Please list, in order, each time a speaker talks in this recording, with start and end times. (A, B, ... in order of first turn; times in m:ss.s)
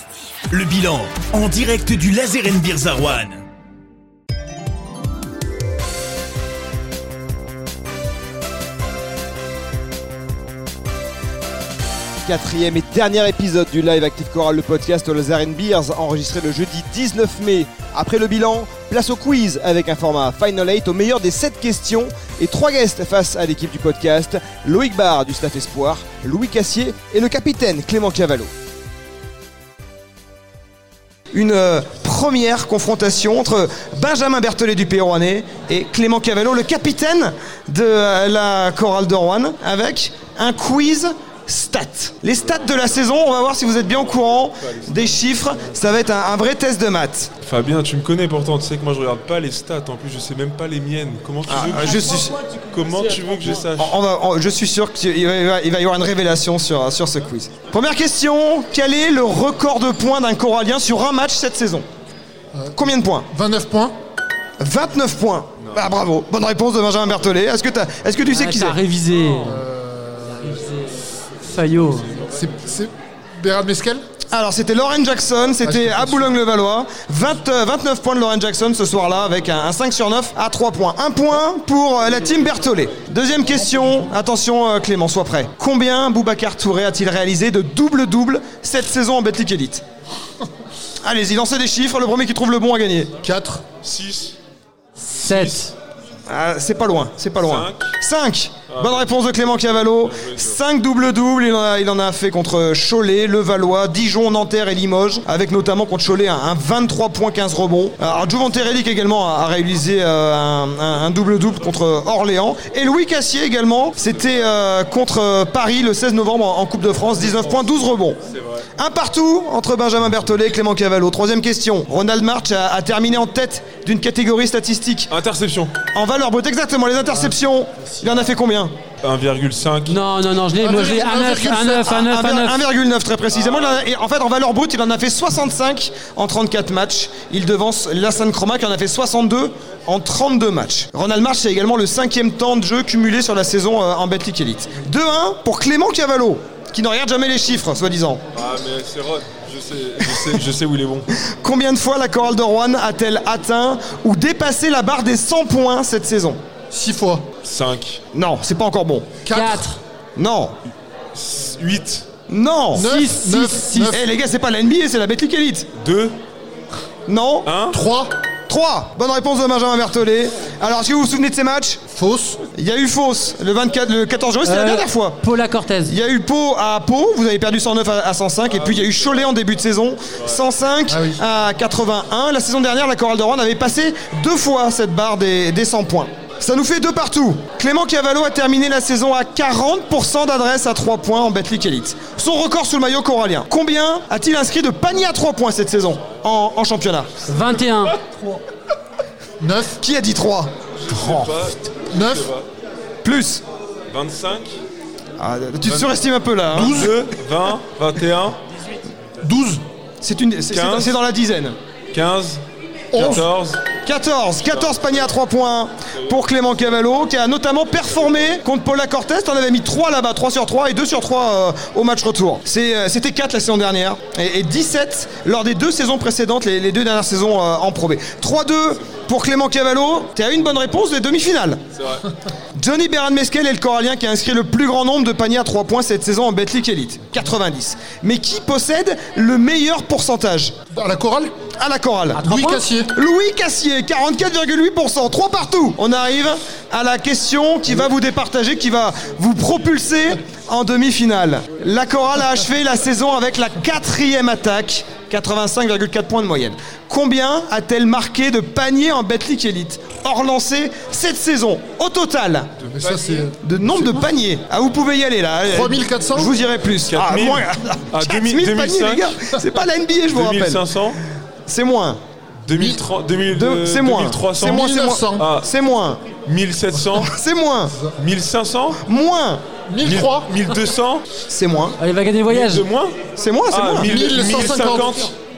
0:00.5-0:03.4 A
0:12.2-0:28.5 B
0:31.3-0:47.3 B
0:43.8-0:45.1 C
0:47.4-0:54.0 C
0:51.5-0:52.4 B
0:53.8-1:01.8 B
1:02.7-1:03.3 B
1:03.3-1:03.9 D
1:04.6-1:08.8 B
1:08.3-1:09.7 E
1:09.4-1:10.5 D
1:10.2-1:12.2 E
1:12.2-1:14.0 D
1:14.3-1:29.8 B
1:15.6-1:16.3 D
1:31.0-1:33.2 B
1:33.2-1:33.6 D
1:33.8-1:34.4 C
1:35.0-1:35.7 E
1:35.2-1:35.6 C
1:36.3-1:58.2 B
1:37.4-1:37.9 C
1:38.7-1:39.1 C
1:39.8-1:40.6 C
1:58.3-1:58.7 C
1:58.8-2:05.1 B
2:05.1-2:05.7 C
2:05.9-2:08.7 B
2:09.0-2:10.0 C
2:09.8-2:12.6 E
2:10.6-2:12.0 D
2:11.8-2:28.2 B
2:28.3-2:31.0 C
2:31.2-2:36.4 B
2:36.7-2:37.2 D
2:37.4-2:38.0 C
2:38.1-2:39.1 B
2:39.2-2:39.7 D
2:39.3-2:39.8 E
2:40.2-2:40.5 B
2:41.1-2:42.0 C
2:42.3-2:42.9 B
2:42.7-2:44.0 D
2:42.9-2:43.9 E
2:43.9-2:45.7 B
2:45.8-2:46.2 C
2:47.1-2:47.5 B
2:47.4-2:47.8 C
2:47.7-2:48.1 D
2:48.5-2:51.8 B
2:51.9-2:52.4 D
2:52.5-2:55.2 B
2:54.4-2:56.0 E
2:55.8-3:17.2 B
2:58.5-2:59.1 C
3:00.9-3:01.2 D
3:17.3-3:18.0 E
3:18.1-3:18.4 D
3:19.4-3:19.8 D
3:19.8-3:21.4 B
3:20.8-3:22.4 C
3:21.9-3:22.3 D
3:23.0-3:23.4 B
3:23.9-3:24.6 C
3:25.2-3:26.9 B
3:25.6-3:25.9 C
3:26.5-3:27.0 D
3:26.5-3:28.4 C
3:29.2-3:29.6 D
3:30.0-3:31.5 B
3:30.5-3:31.0 C
3:31.9-3:32.4 C
3:32.9-3:33.2 D
3:33.0-3:33.6 C
3:33.0-3:33.2 B
3:33.8-3:51.6 B
3:34.5-3:35.0 C
3:51.8-3:52.0 C
3:52.6-4:00.5 B
4:00.7-4:01.3 D
4:01.6-4:02.2 B
4:02.2-4:02.6 E
4:02.2-4:02.9 D
4:02.9-4:22.5 B
4:22.6-4:24.1 D
4:22.7-4:23.2 C
4:23.4-4:30.7 B
4:25.5-4:26.3 D
4:26.9-4:29.2 C
4:30.1-4:31.0 C
4:31.5-4:32.0 B
4:32.4-4:35.5 C
4:32.5-4:32.8 D
4:33.3-4:36.0 B
4:34.4-4:35.3 D
4:36.2-4:37.1 C
4:37.1-4:37.7 B
4:38.0-4:38.8 C
4:38.8-4:39.4 B
4:39.7-4:40.3 D
4:39.8-4:41.0 C
4:41.3-4:41.8 B
4:41.8-4:42.6 E
4:42.3-4:43.0 C
4:43.1-4:43.9 B
4:43.5-4:45.1 C
4:43.8-4:45.0 D